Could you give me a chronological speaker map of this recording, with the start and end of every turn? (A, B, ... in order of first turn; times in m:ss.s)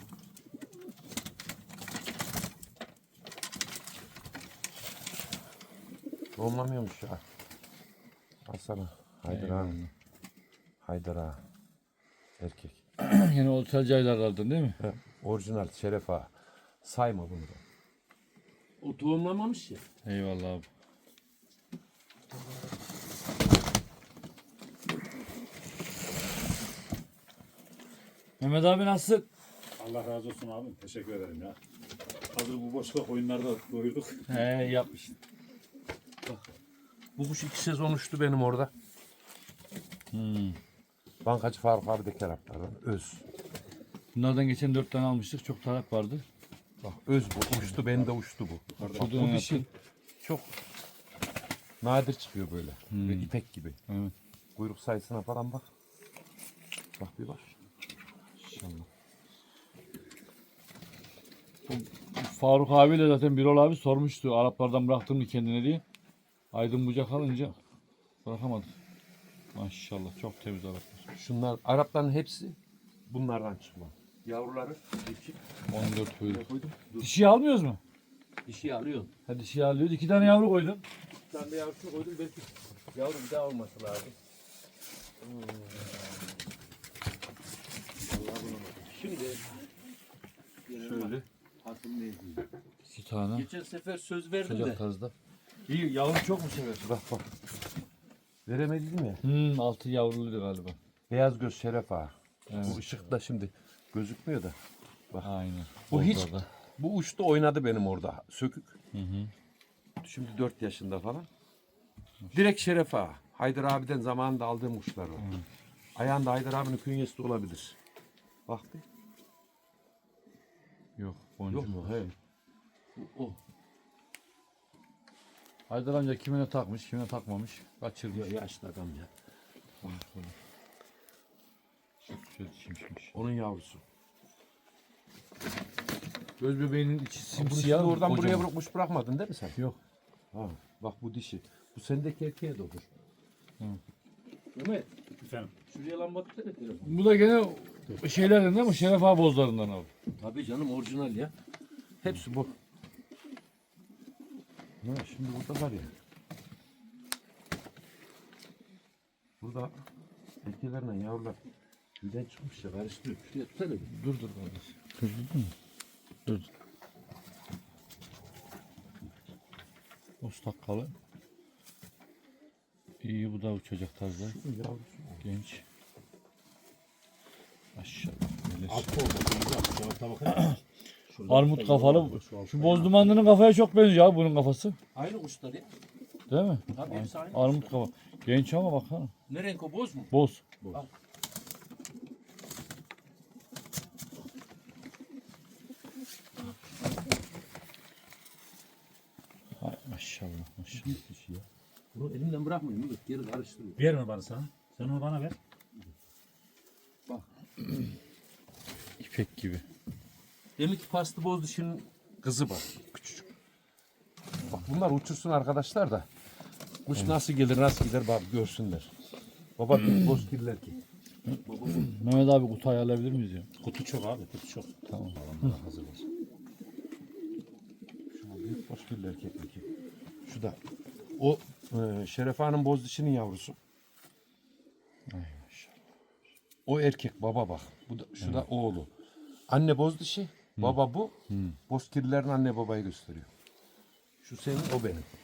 0:06.4-0:07.2 A
0:08.4-0:09.8 A
0:09.3-0:09.9 B
0:10.8-0:11.4 A
0:12.4-0:12.8 A
0:13.0-0:14.8 B
0:14.8-0:16.3 A
0:16.8-0:17.6 A
0:18.8-0:19.8 A
0:20.0-0:20.6 B
0:28.4-0:29.2 B
0:29.8-0:31.6 C
0:32.3-0:34.2 C
0:34.3-0:35.1 B
0:37.2-0:38.7 A
0:40.1-0:40.6 B
0:41.2-0:43.2 A
0:44.1-0:46.2 B
0:46.8-0:49.6 A
0:48.8-0:49.2 C
0:48.9-0:49.6 B
0:50.2-0:50.5 A
0:51.8-0:53.8 A
0:52.9-0:53.3 B
0:53.9-0:54.1 B
0:54.6-0:55.7 A
0:57.0-0:57.5 A
0:58.4-0:58.9 B
1:01.7-1:05.8 B
1:06.5-1:07.6 B
1:08.2-1:08.7 B
1:09.5-1:11.0 B
1:11.1-1:15.4 A
1:15.7-1:16.4 B
1:16.2-1:17.1 A
1:17.0-1:17.8 B
1:18.4-1:19.1 A
1:19.3-1:20.8 B
1:21.3-1:24.1 A
1:25.2-1:26.3 A
1:28.1-1:29.4 A
1:30.6-1:32.5 A
1:30.7-1:31.2 B
1:32.9-1:33.5 B
1:33.3-1:34.8 A
1:34.4-1:35.1 B
1:35.7-1:36.9 B
1:36.8-1:37.3 A
1:38.4-1:39.2 A
1:39.2-1:40.8 B
1:41.1-1:44.6 A
1:42.5-1:42.8 B
1:45.2-1:46.4 B
1:45.9-1:48.7 A
1:48.9-1:49.3 B
1:50.0-1:51.3 A
1:52.3-1:55.2 A
1:55.2-1:55.4 B
1:55.9-1:57.8 A
1:58.5-1:58.8 A
2:01.0-2:02.1 B
2:01.5-2:02.1 A
2:03.0-2:03.4 A
2:05.7-2:08.3 B
2:08.1-2:09.1 A
2:09.8-2:10.3 B
2:12.0-2:13.1 B
2:13.1-2:13.8 A
2:16.4-2:18.5 B
2:17.3-2:19.6 A
2:20.3-2:22.9 A
2:24.5-2:24.9 A
2:25.2-2:25.5 C
2:25.7-2:27.0 A
2:26.8-2:29.9 B
2:30.2-2:31.3 A
2:32.0-2:32.5 A
2:34.8-2:36.0 A
2:39.4-2:39.7 A
2:40.4-2:41.4 A
2:42.0-2:43.9 A
2:43.8-2:45.5 B
2:50.2-2:50.9 B
2:53.0-2:54.4 B
2:54.1-2:55.2 A
2:55.2-2:55.6 B
2:57.8-2:58.9 B
2:58.6-3:00.6 A
3:00.3-3:00.6 B
3:01.1-3:03.3 C
3:01.3-3:04.8 B
3:04.9-3:05.7 A
3:06.3-3:09.1 B
3:06.7-3:07.8 A
3:09.3-3:10.1 A
3:10.1-3:10.4 B
3:19.6-3:20.9 B
3:20.7-3:23.8 A
3:23.8-3:25.4 C
3:29.0-3:29.6 B
3:30.6-3:32.8 A
3:34.5-3:36.1 A
3:36.8-3:38.9 A
3:39.6-3:40.8 A
3:41.3-3:43.5 B
3:41.4-3:41.8 A
3:43.6-3:46.0 C
3:44.9-3:45.6 B
3:48.1-3:49.6 A
3:50.2-3:50.6 A
3:51.2-3:53.6 A
3:55.1-3:55.7 B
3:56.6-3:58.9 A
3:58.2-3:58.4 B
3:59.5-4:01.1 A
4:01.3-4:01.6 B
4:01.7-4:03.3 A
4:04.2-4:05.1 A